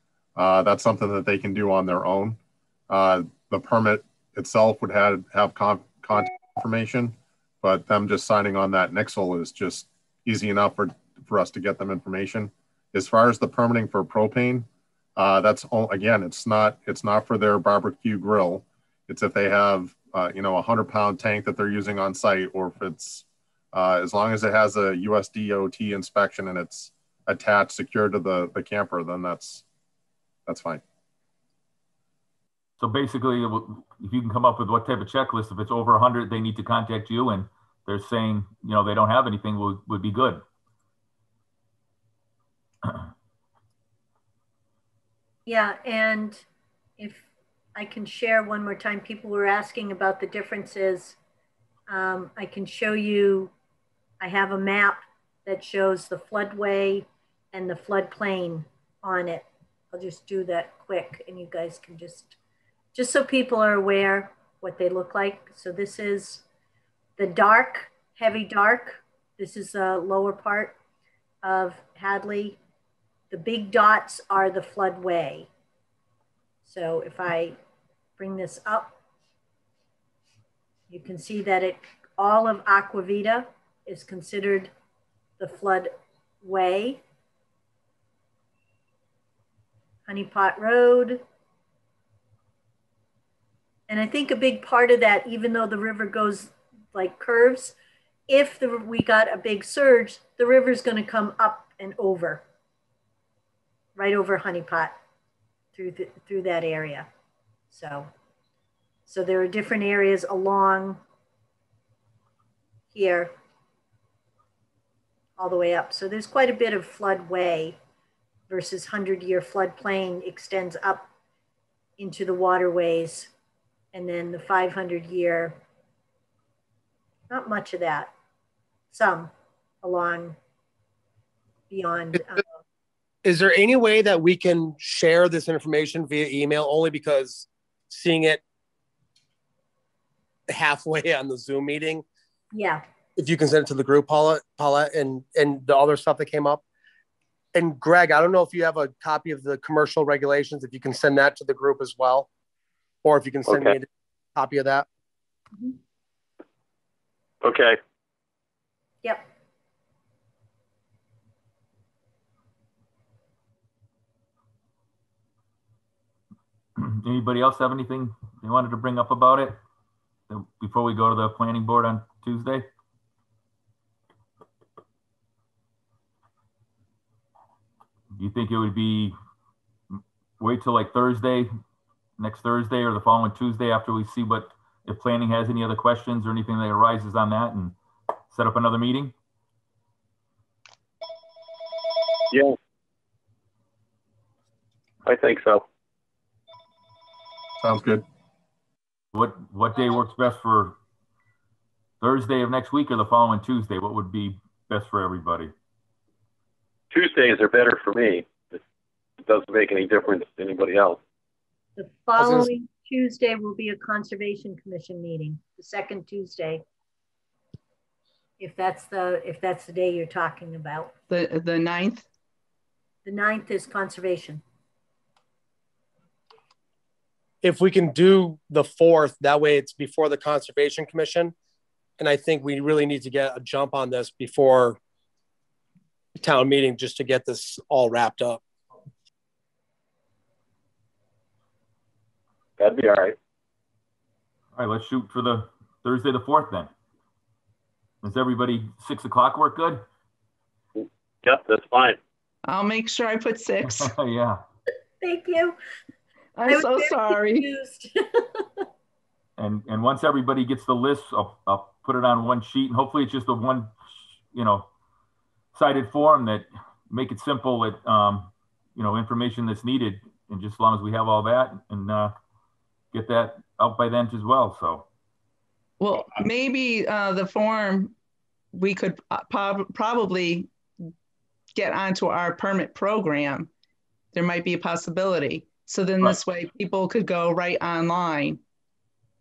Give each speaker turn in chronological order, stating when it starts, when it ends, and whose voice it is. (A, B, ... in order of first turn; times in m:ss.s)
0:00.4-0:29.6 A
0:30.5-0:30.8 A
0:32.8-0:40.4 B
0:45.5-0:46.4 C
0:47.0-0:51.2 C
0:51.9-0:53.5 C
0:54.2-1:02.4 C
1:03.0-1:06.4 C
1:07.2-1:10.8 C
1:11.4-1:12.6 C
1:13.3-1:15.5 C
1:16.6-1:17.6 C
1:18.2-1:19.0 C
1:20.9-1:24.7 C
1:25.4-1:27.0 C
1:30.1-1:31.2 C
1:33.9-1:37.8 C
1:38.3-1:42.4 C
1:44.0-1:45.0 C
1:45.8-1:47.1 C
1:47.7-1:48.1 C
1:49.1-1:51.0 C
1:52.9-1:53.3 C
1:55.4-1:57.8 C
1:58.5-2:01.1 C
2:02.0-2:03.3 C
2:03.9-2:05.6 C
2:07.3-2:08.1 C
2:08.9-2:09.3 C
2:09.8-2:10.4 C
2:11.7-2:12.4 C
2:13.2-2:18.4 D
2:20.5-2:22.0 D
2:22.5-2:22.8 C
2:23.2-2:26.6 D
2:27.5-2:32.3 D
2:33.0-2:34.9 D
2:33.5-2:33.8 E
2:37.4-2:37.8 E
2:46.8-2:49.6 B
2:50.3-2:52.7 B
2:58.1-2:59.2 B
2:59.9-3:01.5 B
3:02.2-3:07.8 B
3:08.3-3:09.1 B
3:12.3-3:12.6 E
3:15.1-3:15.6 E
3:17.6-3:18.0 A
3:19.1-3:20.8 B
3:22.0-3:25.5 B
3:26.9-3:28.6 E
3:29.3-3:31.0 E
3:31.8-3:36.6 C
3:32.2-3:32.5 D
3:38.4-3:40.9 C
3:41.1-3:42.1 F
3:43.0-3:44.4 C
3:47.4-3:51.3 D
3:52.0-3:54.8 D
3:56.2-3:58.4 D
4:02.6-4:03.2 E
4:04.6-4:06.7 B
4:08.0-4:09.8 B
4:10.8-4:12.0 E
4:12.5-4:13.9 F
4:13.6-4:14.4 B
4:15.0-4:15.6 C
4:16.4-4:17.5 F
4:16.5-4:18.7 C
4:19.4-4:24.7 B
4:25.5-4:32.1 B
4:32.9-4:34.9 B
4:35.8-4:37.9 F
4:38.5-4:40.5 F
4:41.6-4:43.5 F
4:44.1-4:48.4 F